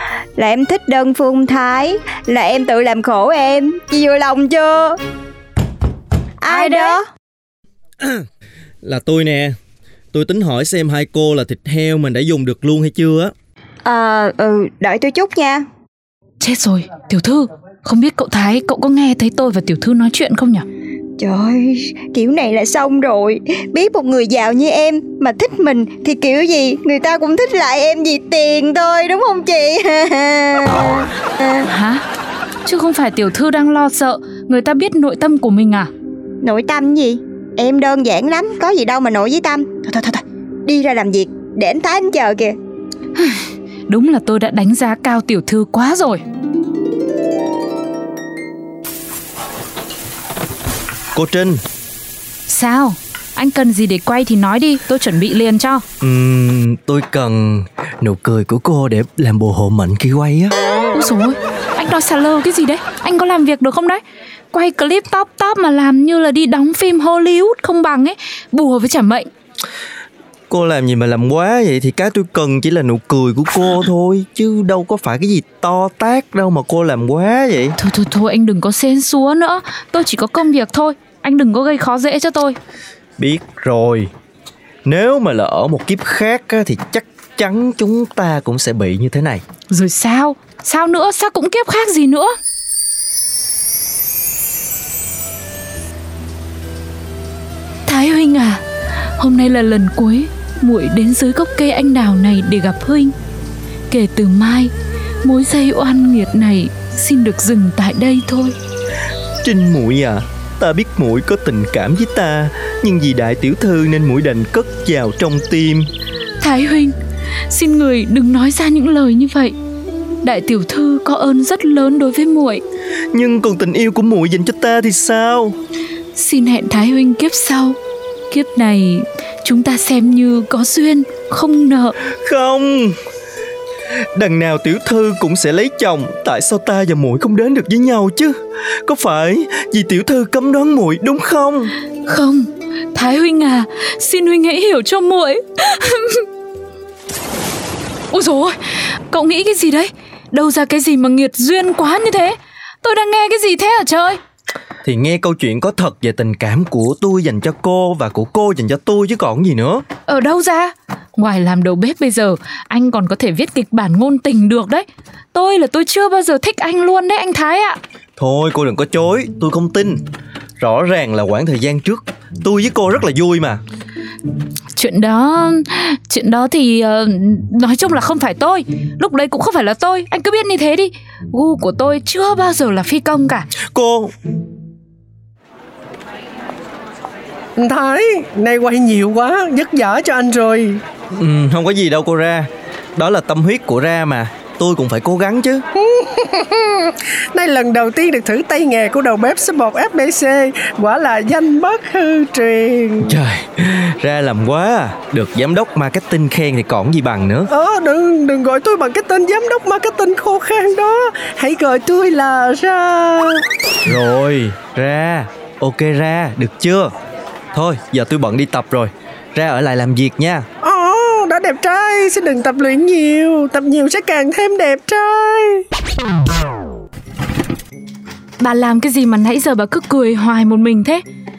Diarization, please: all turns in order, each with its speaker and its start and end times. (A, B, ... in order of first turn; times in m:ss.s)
0:00.4-0:05.0 A
0:06.4-0:07.0 A
0:06.5-0:07.0 B
0:08.8-0:09.6 C
0:10.1-0:13.3 C
0:13.8-0:15.6 A
0:16.4-0:20.6 B
0:21.2-0:31.6 A
0:31.6-0:32.0 B
0:32.6-0:35.9 B
0:36.4-0:39.9 A
0:39.9-0:40.2 B
0:40.6-0:42.6 A
0:43.2-0:46.2 B
0:51.1-0:51.6 C
0:52.5-0:55.8 B
0:56.0-1:00.6 C
1:00.9-1:09.3 B
1:10.5-1:17.8 C
1:17.8-1:22.6 B
1:23.2-1:24.1 C
1:24.8-1:29.4 C
1:29.7-1:32.4 B
1:37.9-1:38.6 B
1:39.2-1:43.1 B
1:43.9-1:44.7 B
1:45.2-1:48.6 B
1:49.4-1:55.9 C
1:56.4-1:56.9 B
1:57.5-1:59.6 B
2:00.2-2:02.6 B
2:03.1-2:05.6 C
2:06.1-2:07.8 B
2:08.3-2:12.0 B
2:12.2-2:13.0 C
2:14.2-2:21.7 C
2:22.1-2:26.2 B
2:28.1-2:34.2 B
2:34.8-2:39.8 C
2:40.1-2:47.8 B
2:48.2-2:50.0 C
2:50.6-2:53.6 C
2:54.8-3:03.5 B
3:03.7-3:04.1 C
3:07.6-3:10.8 D
3:11.1-3:15.6 C
3:15.8-3:23.2 D
3:23.0-3:27.5 C
3:27.5-3:33.4 D
3:33.8-3:36.9 C
3:37.5-3:40.4 C
3:40.6-3:45.6 D
3:48.4-3:51.0 B